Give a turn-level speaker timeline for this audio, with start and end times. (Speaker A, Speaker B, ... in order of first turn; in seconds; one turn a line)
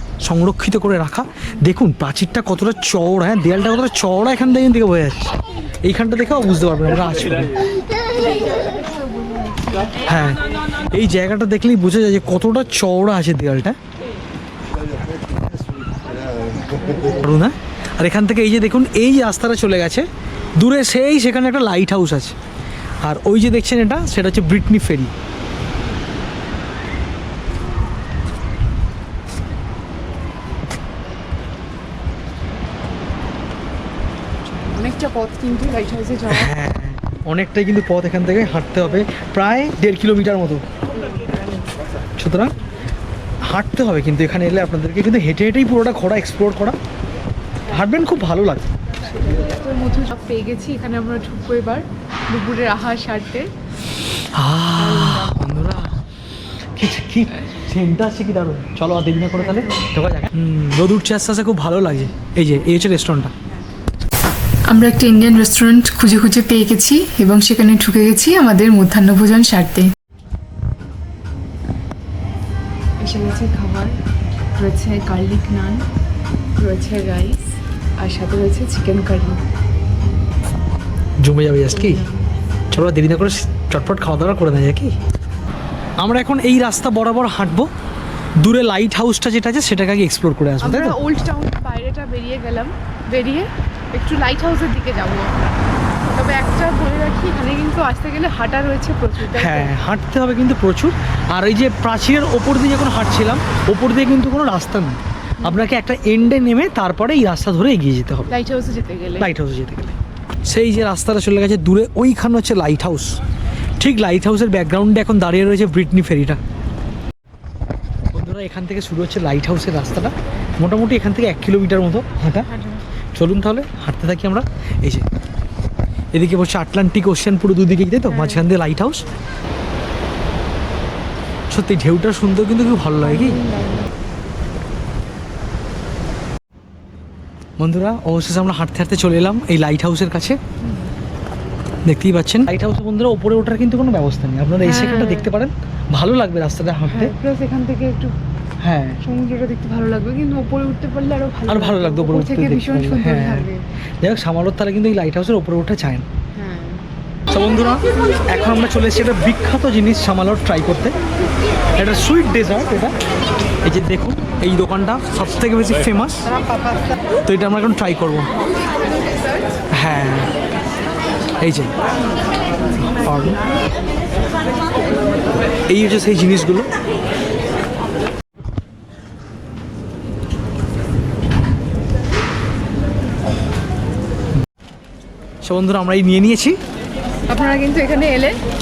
Speaker A: 0.2-7.6
Speaker B: 8.1-10.0
Speaker A: 10.1-10.4
Speaker A: 10.9-13.8
Speaker A: 17.2-22.3
Speaker A: 23.0-25.1
Speaker B: 34.7-36.5
Speaker A: 36.3-40.6
Speaker B: 40.9-41.7
Speaker A: 42.2-42.5
Speaker A: 43.4-46.8
Speaker A: 47.7-48.7
Speaker B: 49.1-53.5
Speaker A: 54.3-56.0
Speaker B: 54.7-55.4
Speaker A: 56.8-63.3
Speaker B: 59.4-59.9
Speaker C: 64.7-69.9
Speaker B: 73.0-74.0
Speaker B: 74.5-75.8
Speaker B: 76.6-79.4
Speaker A: 81.2-82.0
Speaker B: 81.7-82.2
Speaker A: 82.7-84.9
Speaker A: 86.0-87.7
Speaker A: 88.4-91.0
Speaker B: 90.6-95.5
Speaker B: 96.0-99.7
Speaker A: 99.3-108.3
Speaker B: 108.3-109.3
Speaker A: 109.2-113.2
Speaker A: 113.8-116.4
Speaker A: 118.1-122.5
Speaker B: 122.5-122.8
Speaker A: 123.1-125.0
Speaker A: 126.1-129.0
Speaker B: 128.1-128.4
Speaker A: 131.5-133.4
Speaker B: 133.0-133.9
Speaker A: 137.6-140.4
Speaker B: 140.6-140.9
Speaker A: 141.8-147.1
Speaker B: 144.6-145.3
Speaker B: 146.9-148.1
Speaker A: 148.6-149.0
Speaker B: 149.0-153.6
Speaker A: 151.5-153.5
Speaker A: 154.0-156.0
Speaker B: 156.3-156.8
Speaker A: 157.3-160.9
Speaker A: 161.8-162.9
Speaker A: 163.6-166.3
Speaker B: 166.3-166.8
Speaker A: 167.2-168.3
Speaker B: 168.9-169.5
Speaker A: 169.7-170.3
Speaker A: 171.4-171.7
Speaker A: 172.8-173.4
Speaker A: 175.7-176.7
Speaker A: 185.4-186.6
Speaker B: 187.3-188.4